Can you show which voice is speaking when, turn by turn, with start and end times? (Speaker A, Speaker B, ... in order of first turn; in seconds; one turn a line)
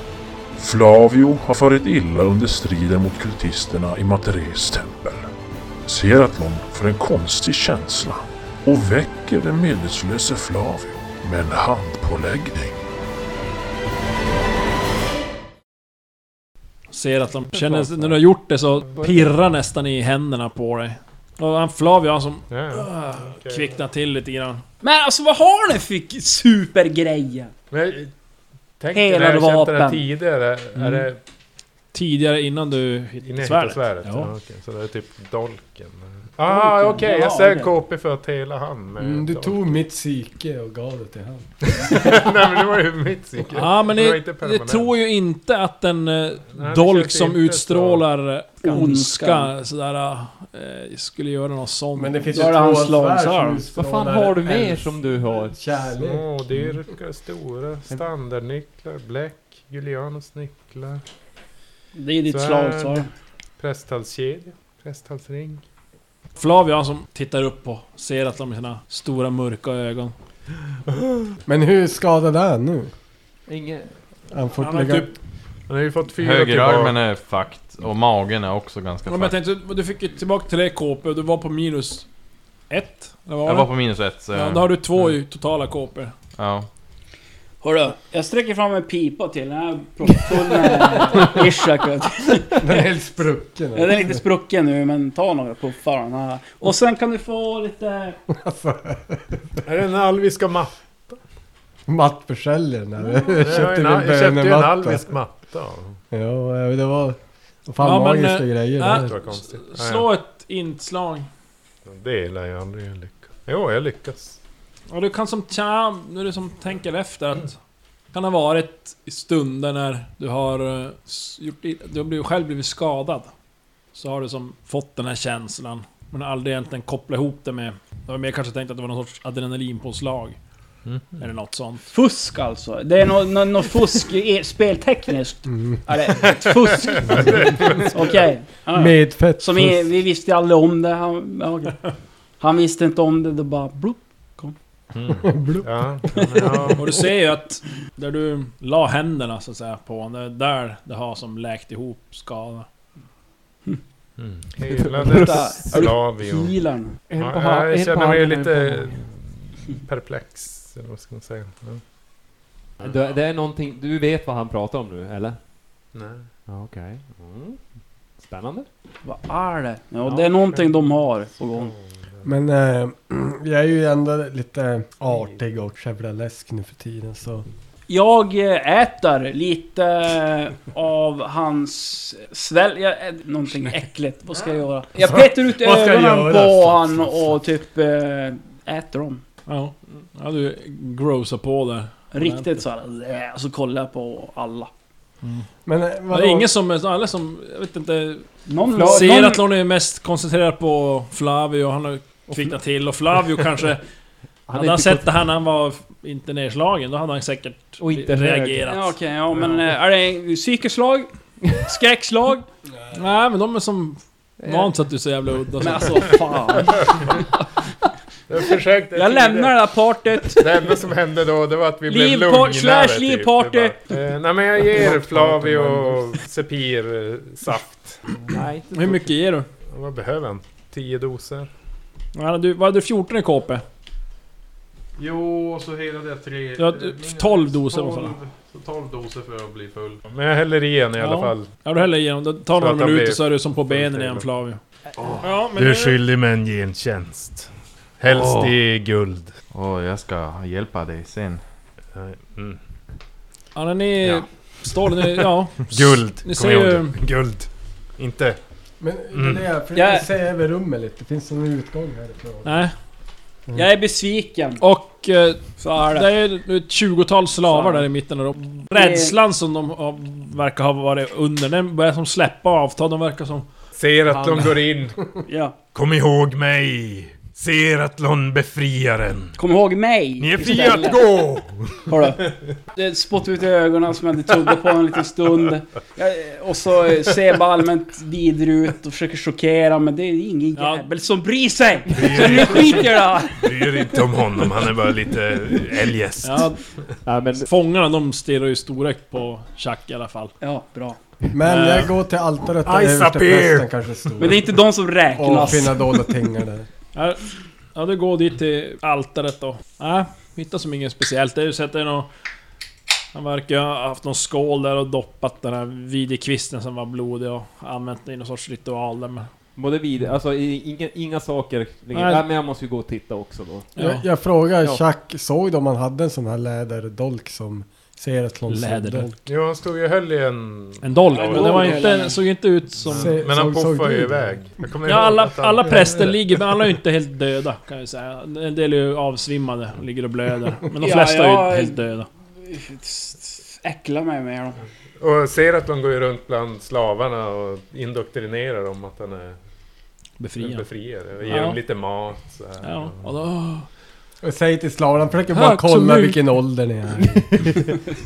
Speaker A: 0.6-5.3
Speaker A: 5.8-12.8
Speaker B: 16.9-24.6
Speaker C: 17.5-18.2
Speaker C: 18.9-19.2
Speaker D: 22.5-23.7
Speaker E: 24.8-27.5
Speaker D: 27.7-28.1
Speaker D: 28.8-31.2
Speaker E: 28.9-30.0
Speaker B: 30.8-31.1
Speaker B: 31.9-34.3
Speaker D: 33.2-39.8
Speaker E: 36.5-37.7
Speaker F: 39.0-42.0
Speaker D: 41.6-44.9
Speaker B: 43.5-52.2
Speaker D: 46.5-48.0
Speaker E: 48.6-49.5
Speaker F: 52.0-56.3
Speaker E: 52.3-53.6
Speaker C: 53.7-55.5
Speaker D: 56.0-61.0
Speaker E: 62.0-63.1
Speaker D: 62.3-63.0
Speaker D: 63.6-65.6
Speaker B: 66.4-70.1
Speaker D: 70.9-71.1
Speaker F: 71.5-72.9
Speaker C: 73.5-73.9
Speaker F: 74.3-75.2
Speaker B: 74.6-75.1
Speaker D: 75.7-77.0
Speaker G: 76.2-79.4
Speaker B: 79.1-82.1
Speaker B: 82.7-83.7
Speaker G: 83.5-85.1
Speaker B: 84.3-86.1
Speaker G: 86.4-86.7
Speaker E: 87.6-92.8
Speaker F: 92.6-94.2
Speaker E: 93.8-98.2
Speaker F: 98.3-99.6
Speaker D: 99.6-101.2
Speaker F: 101.9-105.1
Speaker D: 103.2-106.0
Speaker F: 106.1-109.1
Speaker B: 107.8-111.3
Speaker D: 108.8-110.1
Speaker D: 111.8-114.4
Speaker B: 114.9-117.6
Speaker B: 118.1-123.3
Speaker B: 124.0-130.4
Speaker D: 130.9-131.2
Speaker B: 131.2-131.9
Speaker E: 131.9-144.5
Speaker F: 135.5-135.8
Speaker D: 136.2-138.3
Speaker F: 137.1-137.8
Speaker F: 138.7-139.9
Speaker D: 144.9-147.0
Speaker F: 145.2-146.8
Speaker B: 146.8-152.7
Speaker D: 154.2-156.6
Speaker C: 154.7-155.9
Speaker E: 155.0-157.0
Speaker C: 157.1-159.1
Speaker D: 157.2-161.8
Speaker D: 162.8-163.1
Speaker C: 162.8-165.4
Speaker D: 165.9-166.3
Speaker C: 166.5-167.6
Speaker C: 168.2-168.7
Speaker E: 169.0-171.7
Speaker C: 170.0-170.4
Speaker D: 170.5-170.8
Speaker D: 171.5-172.3
Speaker F: 172.2-177.5
Speaker E: 177.9-189.2
Speaker F: 185.0-187.1
Speaker B: 189.5-192.6
Speaker E: 192.1-194.7
Speaker B: 195.2-195.5
Speaker F: 195.7-196.5
Speaker B: 196.1-203.8
Speaker E: 198.5-199.4
Speaker C: 198.8-199.2
Speaker C: 204.5-205.2
Speaker B: 204.5-209.0
Speaker C: 207.8-208.7
Speaker E: 208.7-212.5
Speaker B: 212.9-216.7
Speaker C: 214.4-214.8
Speaker E: 215.6-217.3
Speaker D: 218.3-219.6
Speaker E: 218.9-220.7
Speaker D: 220.2-228.0
Speaker E: 221.9-223.8
Speaker C: 224.7-226.2
Speaker C: 228.3-229.1
Speaker B: 228.7-229.5
Speaker D: 229.7-231.5
Speaker B: 232.2-233.6
Speaker G: 235.0-240.0
Speaker B: 236.6-238.2
Speaker D: 240.1-241.5
Speaker B: 241.0-244.6
Speaker D: 242.6-244.3
Speaker G: 245.0-245.3
Speaker B: 245.2-246.0
Speaker D: 245.6-249.3
Speaker G: 248.1-248.5
Speaker G: 249.5-251.4
Speaker D: 251.9-252.6
Speaker B: 253.6-257.0
Speaker D: 255.1-258.4
Speaker F: 258.8-262.6
Speaker D: 259.1-259.4
Speaker E: 259.8-260.1
Speaker B: 262.4-262.7
Speaker E: 263.5-264.6
Speaker B: 264.6-273.5
Speaker E: 265.6-266.1
Speaker E: 267.4-267.9
Speaker E: 268.7-269.2
Speaker D: 273.7-275.0
Speaker E: 275.3-275.6
Speaker D: 275.7-279.4
Speaker E: 279.4-281.0
Speaker D: 280.2-282.1
Speaker E: 281.9-293.8
Speaker B: 290.6-290.9
Speaker D: 291.9-296.5
Speaker B: 296.2-296.6
Speaker C: 297.1-297.5
Speaker B: 297.4-300.3
Speaker E: 300.4-301.0
Speaker F: 301.3-304.5
Speaker B: 301.4-301.9
Speaker D: 302.6-304.3
Speaker E: 304.2-305.9
Speaker F: 305.1-306.7
Speaker B: 306.9-312.1
Speaker B: 313.1-319.3
Speaker C: 319.6-323.7
Speaker B: 321.9-322.3
Speaker B: 323.8-324.1
Speaker F: 323.8-329.2
Speaker B: 328.5-329.1
Speaker D: 329.3-331.9
Speaker B: 330.8-333.2
Speaker E: 331.1-332.2
Speaker D: 332.8-336.1
Speaker F: 332.9-334.4
Speaker B: 334.9-342.1
Speaker E: 340.8-341.8
Speaker E: 342.4-344.6
Speaker D: 345.0-349.4
Speaker B: 350.2-350.7
Speaker D: 350.4-353.0
Speaker B: 351.2-351.6
Speaker B: 352.6-353.7
Speaker F: 354.2-357.8
Speaker B: 355.3-356.2